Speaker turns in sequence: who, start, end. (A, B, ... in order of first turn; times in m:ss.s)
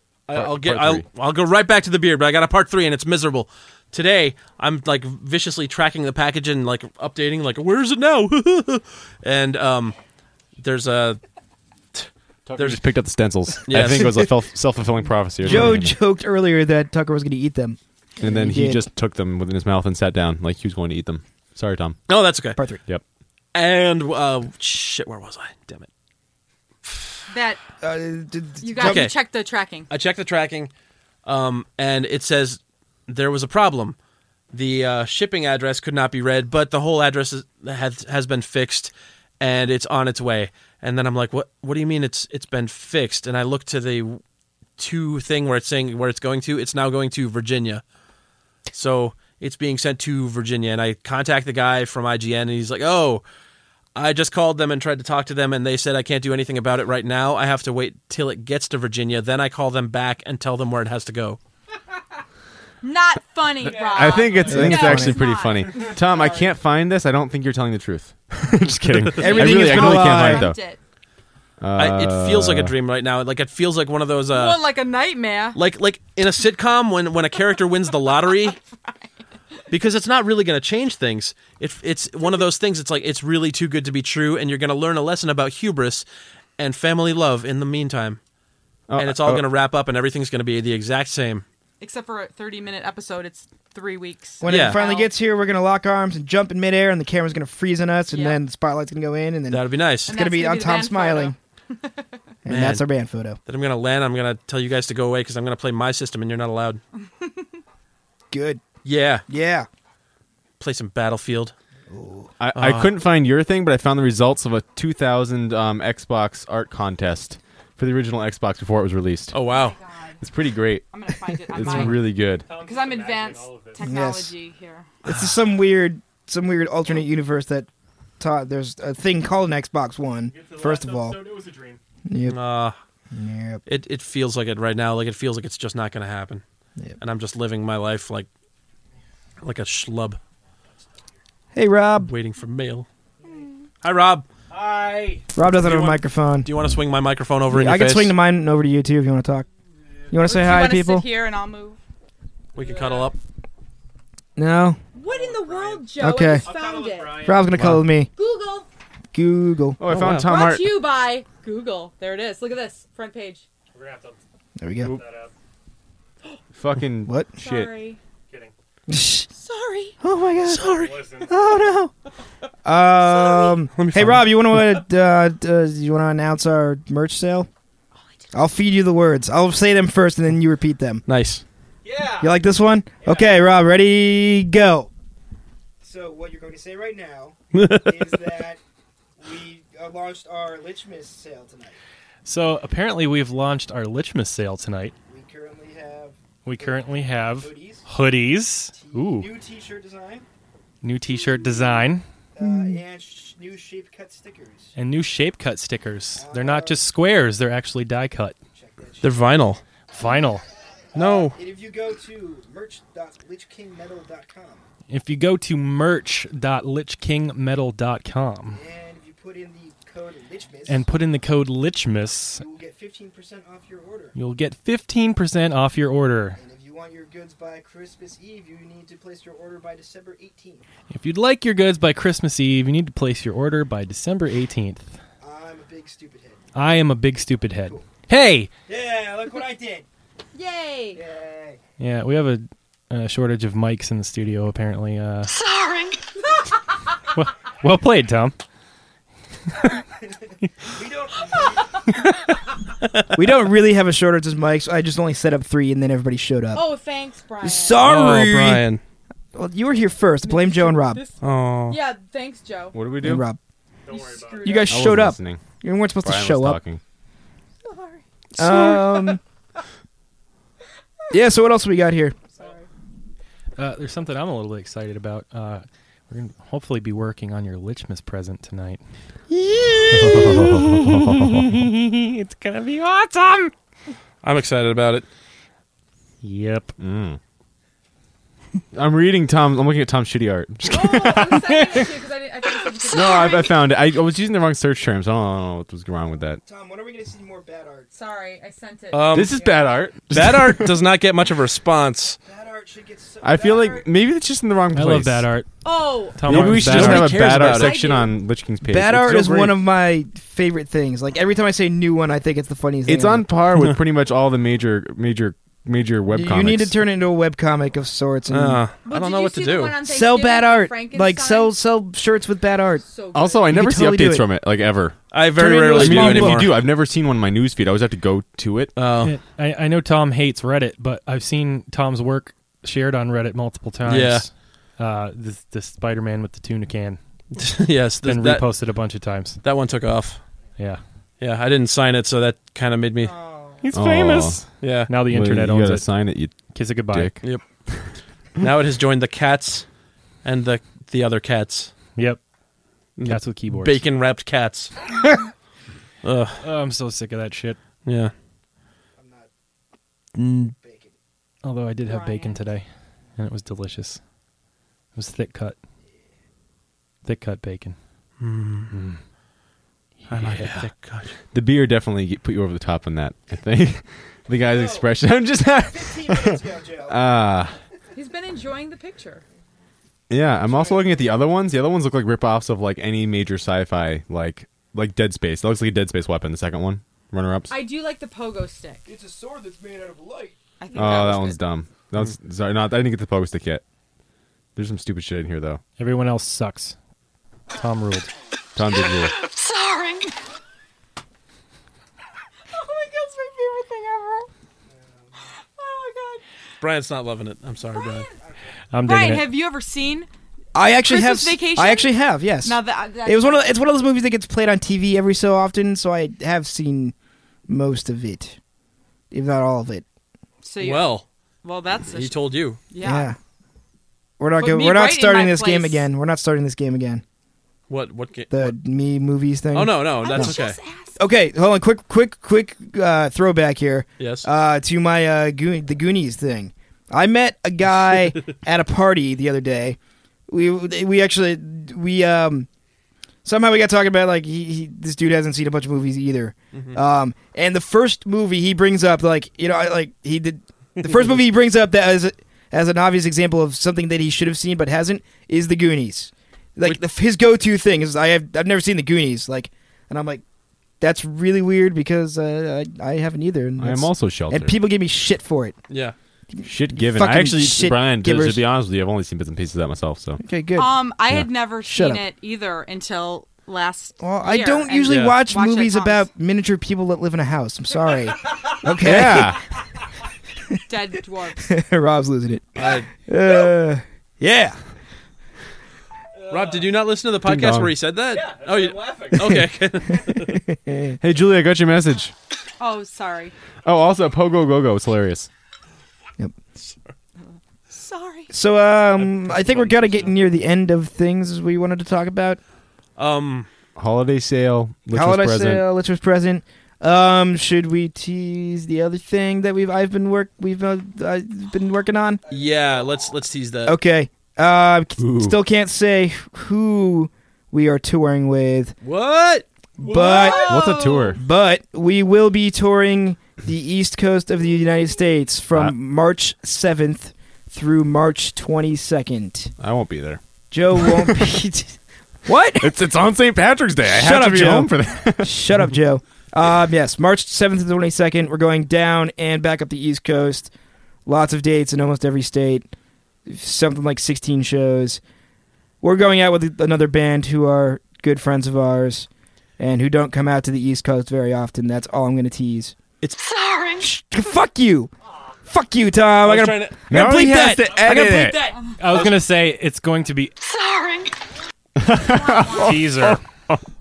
0:00.3-0:09.9 A
0:00.3-0:01.0 B
0:10.6-0:11.2 A
0:11.9-0:12.8 A
0:12.5-0:16.0 B
0:13.6-0:14.3 A
0:15.4-0:18.8 C
0:15.4-0:15.8 A
0:18.2-0:22.0 B
0:22.1-0:22.6 A
0:22.6-0:22.8 C
0:23.5-0:25.9 A
0:27.3-0:27.6 D
0:27.8-0:29.1 C
0:28.6-0:29.9 D
0:28.8-0:29.1 A
0:29.9-0:30.7 A
0:31.2-0:34.0 A
0:34.5-0:44.2 A
0:44.8-0:47.8 A
0:48.7-0:53.2 A
0:53.9-1:01.4 A
1:02.8-1:06.5 D
1:03.6-1:10.6 B
1:04.5-1:05.2 C
1:09.2-1:10.5 C
1:09.2-1:10.8 D
1:11.6-1:12.7 B
1:11.8-1:14.6 A
1:14.3-1:15.6 D
1:15.5-1:18.6 A
1:19.7-1:26.0 A
1:26.6-1:28.2 A
1:28.9-1:29.4 B
1:29.0-1:31.4 A
1:31.8-1:35.1 D
1:34.4-1:41.3 C
1:34.4-1:34.8 A
1:38.1-1:38.4 D
1:39.5-1:40.1 A
1:40.1-1:42.0 D
1:42.4-1:43.4 C
1:42.5-1:42.8 A
1:43.5-1:46.8 A
1:48.3-1:48.6 C
1:48.8-1:49.2 A
1:49.3-1:49.7 C
1:50.6-1:51.5 A
1:51.9-1:52.3 C
1:52.4-1:59.3 B
1:52.5-1:52.9 A
1:59.3-1:59.8 A
1:59.5-2:00.2 D
2:00.2-2:00.9 B
2:00.9-2:04.9 D
2:01.4-2:02.5 B
2:02.4-2:03.8 E
2:03.8-2:04.3 C
2:05.0-2:07.7 C
2:05.1-2:05.4 A
2:08.2-2:11.2 C
2:10.3-2:11.8 E
2:12.1-2:12.4 C
2:12.2-2:12.8 A
2:13.1-2:13.6 C
2:13.7-2:16.4 A
2:17.0-2:18.3 A
2:19.4-2:20.2 A
2:21.5-2:22.1 C
2:22.0-2:22.9 A
2:23.2-2:23.6 D
2:23.8-2:24.2 A
2:24.5-2:25.2 E
2:25.3-2:26.5 C
2:25.4-2:28.1 A
2:27.5-2:29.5 C
2:30.1-2:31.0 C
2:30.2-2:31.8 D
2:32.5-2:33.2 A
2:32.6-2:32.9 E
2:34.4-2:34.8 C
2:34.9-2:37.3 D
2:35.5-2:35.7 E
2:36.0-2:36.5 C
2:36.4-2:37.5 E
2:37.2-2:38.1 C
2:37.5-2:37.8 B
2:38.2-2:38.7 D
2:39.1-2:39.8 C
2:39.8-2:40.7 B
2:39.9-2:40.3 A
2:40.2-2:43.4 D
2:43.7-2:44.2 E
2:44.6-2:45.0 C
2:44.8-2:45.3 E
2:46.5-2:47.7 B
2:47.0-2:47.3 C
2:47.4-2:48.0 D
2:48.9-2:49.3 C
2:49.3-2:50.0 D
2:50.0-2:51.9 C
2:50.4-2:51.0 A
2:50.7-2:51.3 E
2:52.6-2:57.5 C
2:53.0-2:53.6 D
2:53.8-2:54.8 A
2:58.0-2:58.3 D
2:58.3-3:01.0 C
3:01.1-3:01.4 A
3:01.8-3:02.3 E
3:02.2-3:04.9 C
3:05.8-3:08.6 C
3:07.5-3:07.9 A
3:09.2-3:11.8 C
3:12.2-3:14.9 E
3:15.1-3:17.8 C
3:16.4-3:19.3 E
3:18.7-3:20.2 C
3:20.8-3:22.0 E
3:22.4-3:24.7 C
3:24.8-3:28.4 E
3:26.2-3:26.8 C
3:28.5-3:29.2 C
3:29.0-3:29.6 A
3:29.9-3:30.4 E
3:30.9-3:34.6 C
3:30.9-3:31.4 A
3:34.9-3:38.6 E
3:38.5-3:40.9 C
3:40.7-3:42.4 E
3:42.4-3:44.1 C
3:44.1-3:46.4 E
3:46.4-3:50.6 C
3:50.9-3:54.9 E
3:55.2-3:56.4 C
3:56.5-3:58.5 E
3:58.7-3:59.8 C
4:00.3-4:01.0 D
4:00.9-4:01.6 C
4:01.8-4:05.3 E
4:07.2-4:08.4 E
4:09.9-4:11.8 C
4:11.5-4:11.8 D
4:13.1-4:16.7 C
4:16.5-4:17.8 D
4:17.4-4:18.6 C
4:17.8-4:18.8 A
4:19.3-4:21.0 C
4:20.2-4:22.8 D
4:21.2-4:21.8 A
4:22.7-4:23.2 B
4:23.0-4:23.4 C
4:23.9-4:24.5 E
4:23.9-4:24.8 D
4:24.4-4:26.6 C
4:24.6-4:25.4 B
4:26.0-4:26.8 B
4:27.6-4:28.0 D
4:28.4-4:29.2 C
4:28.7-4:29.1 D
4:31.1-4:32.2 C
4:32.3-4:32.7 D
4:33.6-4:43.5 E
4:39.9-4:41.5 B
4:44.2-4:45.0 A
4:46.2-4:46.7 E
4:46.8-4:47.2 B
4:48.7-4:51.5 B
4:50.7-4:53.5 D
4:51.3-4:51.8 E
4:52.9-4:56.4 B
4:56.4-4:57.9 C
4:57.9-4:59.7 D
4:58.9-4:59.3 A
4:59.1-5:00.8 B
5:00.1-5:02.2 A
5:02.2-5:03.9 C
5:03.2-5:05.3 B
5:04.7-5:05.5 E
5:05.6-5:06.5 D
5:06.1-5:07.2 E
5:06.2-5:09.6 B
5:06.3-5:07.8 A
5:07.3-5:08.1 D
5:08.7-5:13.3 C
5:12.8-5:16.8 B
5:16.1-5:18.6 C
5:18.3-5:19.8 A
5:18.8-5:21.5 D
5:19.8-5:22.8 C
5:22.8-5:23.5 D
5:23.1-5:28.7 B
5:23.4-5:24.2 C
5:25.1-5:26.6 A
5:25.4-5:26.5 C
5:28.8-5:29.2 A
5:29.0-5:37.0 E
5:33.8-5:34.3 A
5:37.3-5:38.5 A
5:38.0-5:39.4 E
5:39.4-5:40.2 A
5:40.6-5:40.8 E
5:41.2-5:43.1 A
5:43.6-5:47.2 E
5:43.7-5:44.4 B
5:44.6-5:44.9 A
5:45.0-5:47.9 B
5:48.4-5:49.6 A
5:50.2-5:51.7 A
5:52.0-5:52.2 E
5:53.0-5:54.9 A
5:53.0-5:53.8 E
5:56.0-5:56.4 A
5:56.4-5:57.6 E
5:57.8-5:58.1 A
5:59.0-5:59.3 C
6:00.1-6:00.5 A
6:00.6-6:00.9 C
6:01.4-6:04.0 E
6:01.9-6:02.4 D
6:04.9-6:05.6 E
6:07.0-6:07.8 E
6:08.2-6:08.7 A
6:08.7-6:09.0 E
6:10.1-6:10.7 E
6:10.1-6:11.1 A
6:11.3-6:17.6 B
6:14.5-6:14.9 C
6:15.5-6:17.0 C
6:17.9-6:19.2 D
6:20.1-6:27.5 B
6:20.4-6:21.1 C
6:27.5-6:28.9 D
6:28.8-6:30.4 C
6:30.6-6:31.4 D
6:30.7-6:33.6 B
6:34.6-6:35.6 B
6:35.8-6:36.7 E
6:37.5-6:38.1 E
6:38.6-6:39.1 B
6:42.5-6:44.3 D
6:45.2-6:46.2 D
6:46.6-6:48.1 A
6:47.7-6:48.1 D
6:48.7-6:49.3 E
6:48.8-6:50.1 D
6:50.5-6:56.9 C
6:50.8-6:53.5 D
6:57.5-6:58.4 C
6:59.1-6:59.8 C
7:00.4-7:03.1 D
7:00.6-7:01.0 A
7:01.9-7:02.6 A
7:02.8-7:03.2 C
7:04.2-7:07.0 C
7:04.4-7:05.9 D
7:07.7-7:08.5 A
7:08.3-7:10.4 C
7:09.5-7:10.6 A
7:10.0-7:11.0 D
7:11.0-7:19.8 C
7:14.0-7:14.3 A
7:20.3-7:22.5 C
7:23.2-7:40.2 C
7:26.5-7:26.8 A
7:40.8-7:45.6 C
7:43.6-7:44.6 B
7:45.7-7:45.9 A
7:46.3-7:48.4 C
7:46.4-7:50.2 B
7:50.2-7:50.8 C
7:50.6-7:56.1 D
7:51.6-7:52.0 C
7:54.0-7:59.4 C
7:54.9-7:55.2 A
7:58.6-7:59.4 B
8:00.7-8:01.5 D
8:01.4-8:04.6 C
8:02.5-8:02.9 A
8:06.3-8:10.4 A
8:07.2-8:07.7 B
8:08.2-8:09.3 E
8:10.0-8:11.0 C
8:11.0-8:12.1 B
8:12.6-8:13.3 D
8:13.6-8:15.3 B
8:16.6-8:16.9 A
8:17.7-8:18.3 D
8:18.3-8:22.4 C
8:19.0-8:20.2 A
8:23.0-8:23.5 A
8:23.8-8:25.6 B
8:24.9-8:32.4 C
8:32.3-8:33.8 A
8:33.7-8:38.7 C
8:35.0-8:35.4 B
8:38.8-8:40.2 A
8:39.8-8:49.5 C
8:39.8-8:41.2 D
8:40.3-8:41.2 B
8:49.6-8:50.2 B
8:50.5-8:52.8 C
8:50.7-8:51.3 B
8:52.6-8:55.7 B
8:53.9-9:00.5 C
9:01.0-9:02.7 C
9:03.2-9:05.0 C
9:05.8-9:09.1 C
9:09.6-9:12.7 C
9:13.8-9:14.9 C
9:15.5-9:18.7 C
9:16.2-9:16.9 A
9:16.9-9:18.4 B
9:18.8-9:20.3 E
9:18.8-9:19.2 A
9:21.8-9:23.6 B
9:21.9-9:22.8 D
9:22.5-9:23.2 E